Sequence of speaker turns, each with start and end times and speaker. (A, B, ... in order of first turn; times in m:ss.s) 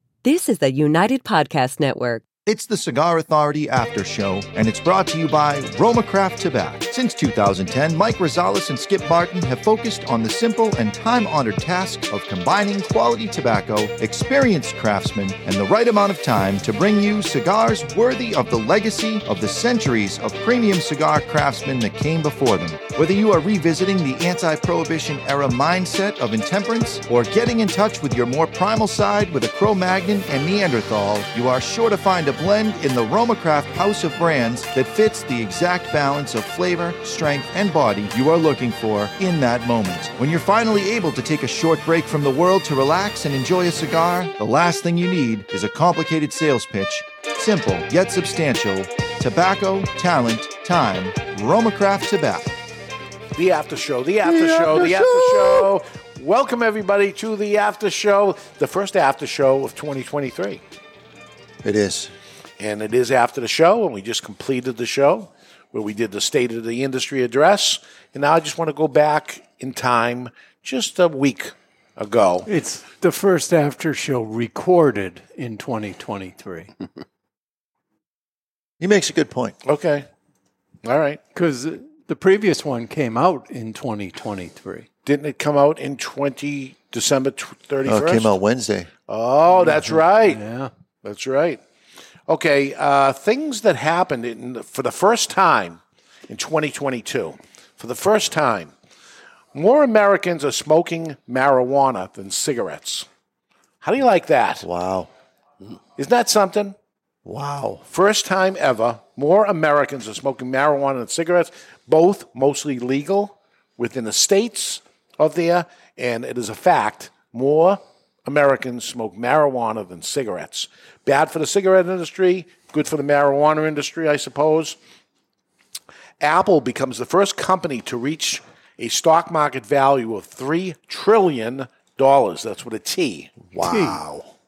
0:00.2-0:02.2 A
0:02.4-0:52.5 B
0:53.3-1:00.6 C
0:54.2-0:55.7 B
1:01.6-1:02.1 B
1:02.6-1:12.5 C
1:12.4-1:16.7 D
1:18.8-1:19.6 B
1:19.6-1:20.0 C
1:20.8-1:21.2 C
1:21.3-1:24.9 D
1:25.0-1:28.3 C
1:27.8-1:28.9 B
1:29.1-1:30.4 C
1:29.6-1:30.7 D
1:31.0-1:31.6 C
1:32.3-1:38.7 C
1:39.5-1:43.0 C
1:43.8-1:44.6 C
1:44.6-1:45.1 B
1:46.0-1:46.7 C
1:47.2-1:47.8 B
1:47.9-2:04.8 C
2:06.2-2:13.5 C
2:13.5-2:14.1 B
2:13.6-2:14.0 D